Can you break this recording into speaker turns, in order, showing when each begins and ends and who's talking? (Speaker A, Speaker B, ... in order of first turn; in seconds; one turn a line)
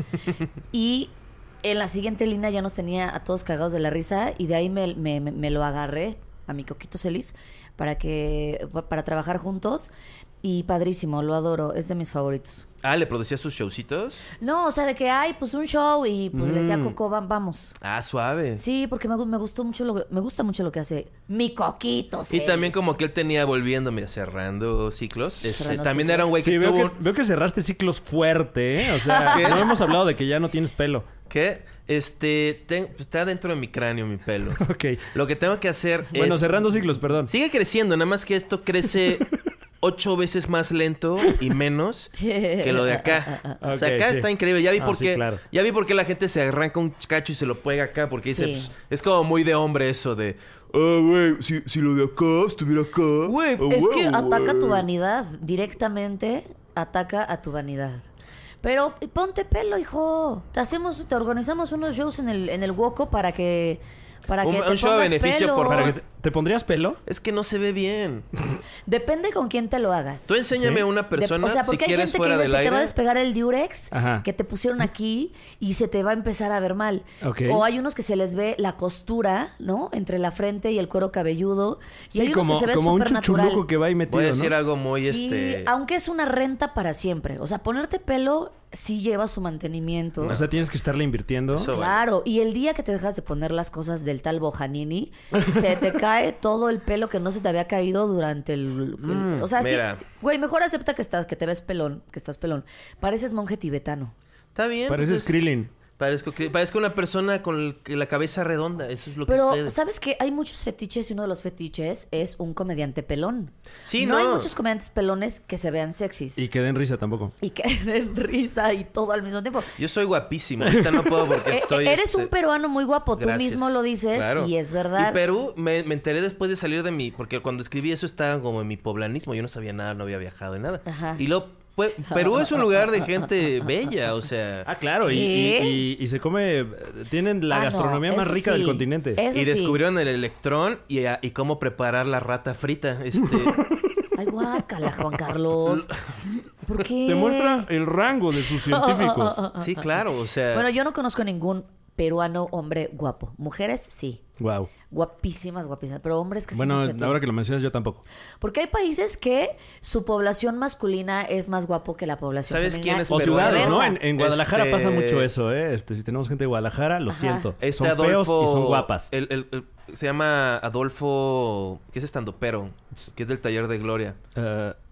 Speaker A: 0.7-9.9
Speaker A: 10.4-12.7
Speaker B: 12.8-14.2
Speaker A: 14.4-17.8
Speaker C: 16.3-16.9
Speaker B: 17.8-18.6
Speaker A: 18.6-22.8
Speaker B: 22.3-27.0
Speaker A: 25.4-26.3
Speaker C: 26.4-31.1
Speaker A: 29.0-29.8
Speaker B: 29.3-29.7
Speaker B: 31.3-36.6
Speaker C: 34.6-35.1
Speaker C: 36.1-37.3
Speaker B: 37.2-39.3
Speaker B: 39.8-54.8
Speaker A: 42.2-43.5
Speaker C: 43.6-45.4
Speaker A: 48.2-48.7
Speaker A: 53.2-58.0
Speaker A: 58.6-65.9
Speaker B: 64.4-66.0
Speaker C: 65.6-67.0
Speaker B: 67.0-68.3
Speaker A: 68.9-70.4
Speaker B: 70.3-72.9
Speaker C: 70.5-70.8
Speaker A: 71.1-83.6
Speaker C: 73.9-74.2
Speaker C: 77.2-77.6
Speaker C: 82.1-84.5
Speaker B: 84.1-85.7
Speaker A: 84.9-90.4
Speaker B: 90.2-90.5
Speaker C: 90.2-91.7
Speaker B: 91.5-92.0
Speaker A: 91.7-104.1
Speaker C: 99.1-99.4
Speaker B: 99.5-100.0
Speaker B: 104.5-105.4
Speaker C: 104.9-105.7
Speaker B: 106.0-109.8
Speaker A: 109.2-116.5
Speaker B: 113.8-114.5
Speaker C: 116.3-117.3
Speaker A: 117.4-119.8
Speaker B: 119.8-122.3
Speaker C: 120.6-120.9
Speaker A: 121.4-125.2
Speaker B: 123.2-134.7
Speaker A: 130.9-131.2
Speaker C: 134.7-139.2
Speaker A: 135.0-135.8
Speaker A: 137.5-139.8
Speaker B: 139.3-143.6
Speaker A: 144.1-145.9
Speaker A: 146.6-147.7
Speaker C: 147.0-149.4
Speaker A: 148.5-149.9
Speaker B: 149.6-150.7
Speaker A: 150.5-154.2
Speaker C: 154.4-154.7
Speaker A: 154.9-157.2
Speaker C: 156.5-158.0
Speaker A: 158.4-164.0
Speaker B: 162.4-165.3
Speaker C: 163.1-169.1
Speaker A: 167.1-167.5
Speaker B: 167.6-174.2
Speaker C: 174.3-174.8